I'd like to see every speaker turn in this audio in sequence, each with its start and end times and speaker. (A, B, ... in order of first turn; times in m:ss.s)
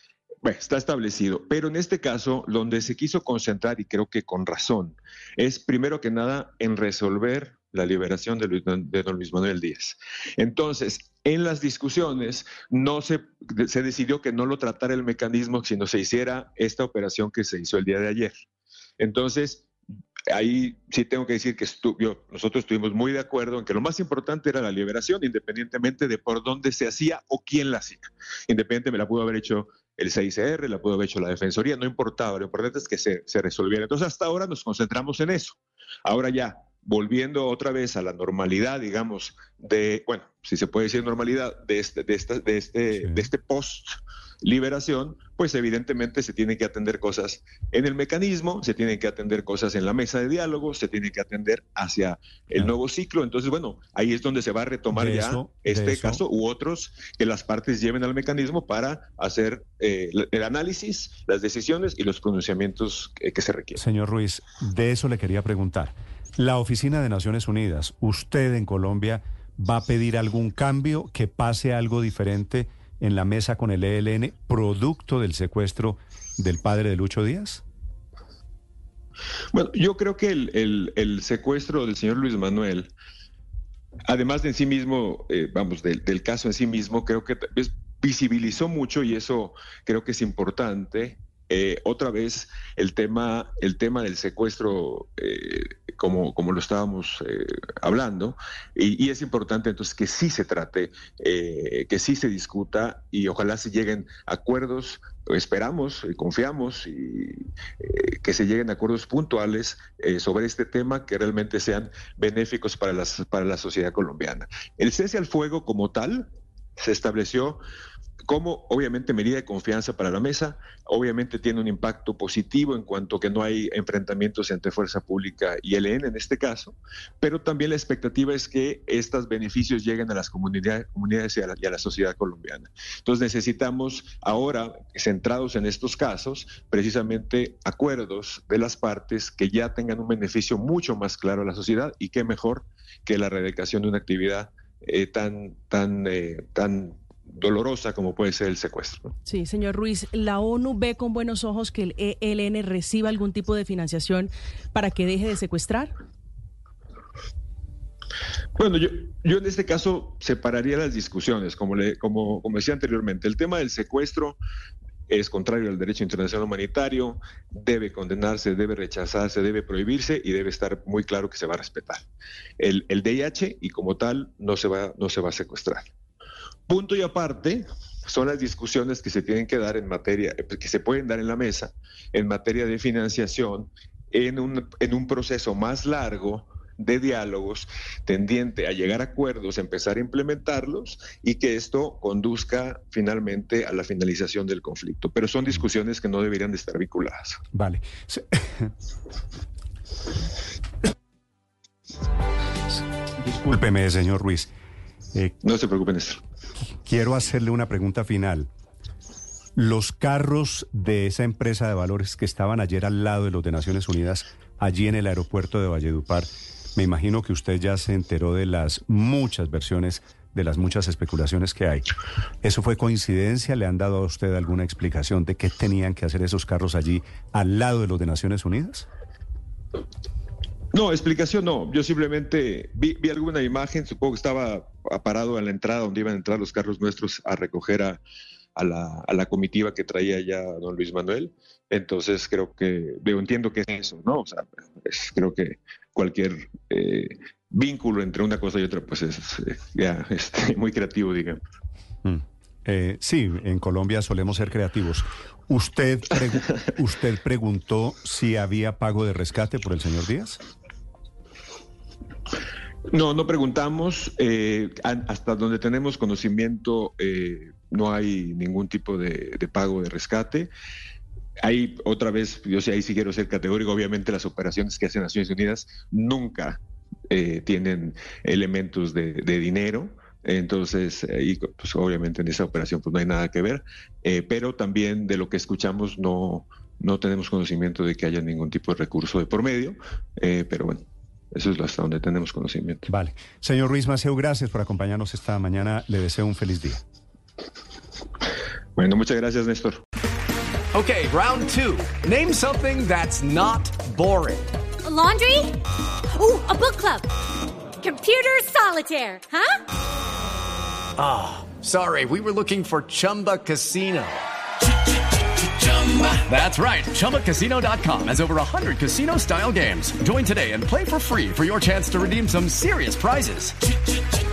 0:00.4-0:18.3 A
0:19.0-0:19.7 A
0:20.3-1:03.8 A
0:42.9-0:43.3 B
0:54.9-0:56.2 B
1:03.8-1:17.6 B
1:19.5-1:22.9 A
1:24.1-1:57.6 A
1:58.3-2:29.1 A
2:29.3-2:35.9 C
2:38.6-2:44.4 A
2:45.1-2:52.0 A
2:52.6-2:55.9 A
2:56.7-3:17.4 A
3:17.5-3:18.7 B
3:23.2-3:24.5 B
3:25.4-3:26.2 A
3:26.8-3:28.5 B
3:29.6-3:41.9 B
3:42.4-3:48.9 B
3:50.7-3:58.0 A
3:58.6-4:11.4 A
4:12.0-4:20.4 B
4:22.9-4:30.5 A
4:31.4-4:52.9 A
4:52.9-4:56.8 B
4:58.8-4:59.8 A
5:00.7-5:04.5 D
5:04.9-5:05.6 E
5:06.2-5:07.1 E
5:07.8-5:09.6 E
5:11.0-5:14.2 D
5:16.1-5:23.6 D